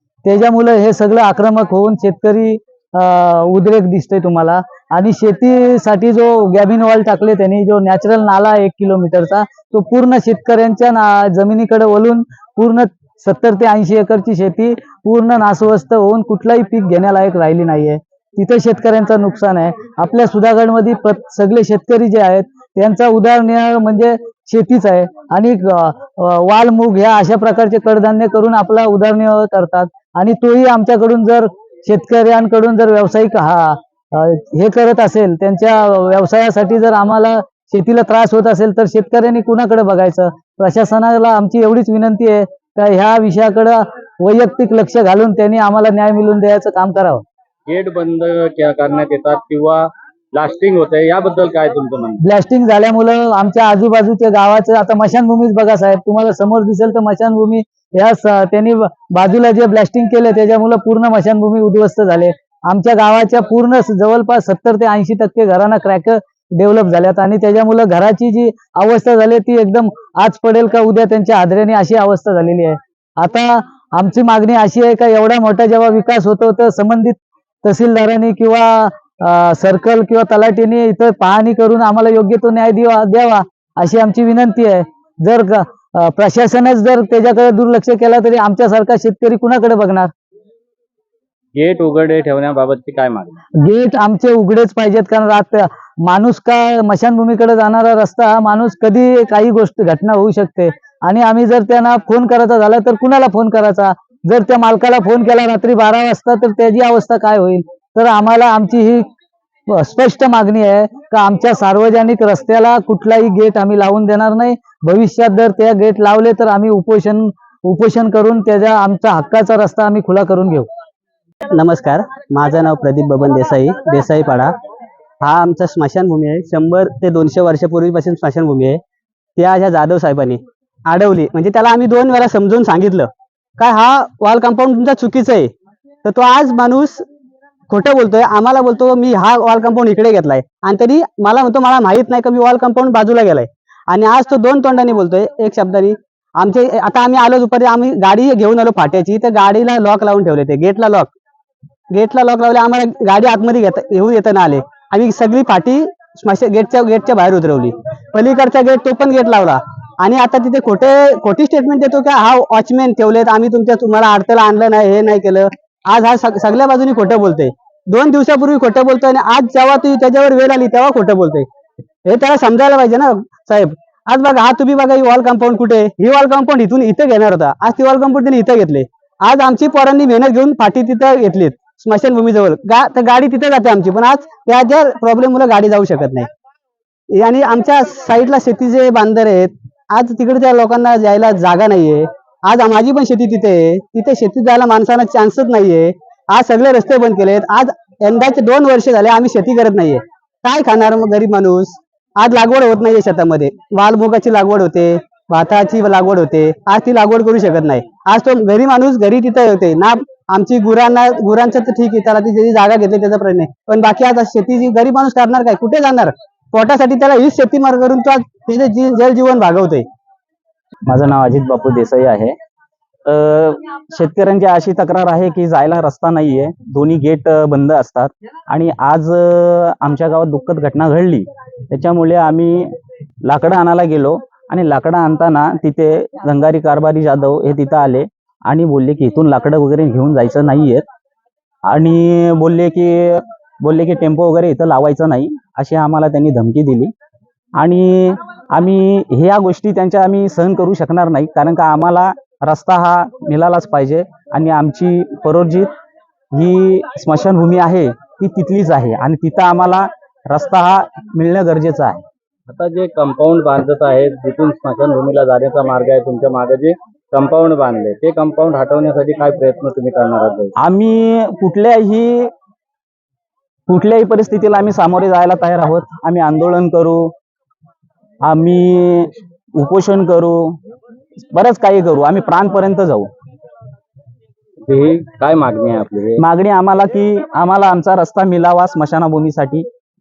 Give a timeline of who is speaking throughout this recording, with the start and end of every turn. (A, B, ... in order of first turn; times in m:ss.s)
0:00.2-0:47.2 A
0:47.7-0:52.2 B
0:52.2-1:30.1 A
1:31.5-1:33.4 B
1:33.6-1:49.0 A
1:49.7-2:00.7 A
2:01.5-2:04.5 C
2:05.2-2:08.8 C
2:09.4-2:15.5 C
2:16.0-2:17.0 C
2:17.7-2:31.1 C
2:31.9-2:51.5 C
2:52.0-3:06.3 C
3:07.1-3:39.8 C
3:40.8-3:42.3 D
3:43.0-3:52.7 D
3:53.2-4:00.8 D
4:01.6-4:06.9 D
4:07.6-4:15.7 D
4:16.3-4:22.0 D
4:22.5-4:30.5 B
4:30.6-4:32.3 D
4:33.7-4:37.1 D
4:38.2-4:40.6 D
4:41.3-4:43.1 D
4:44.7-4:46.1 B
4:46.2-4:49.7 D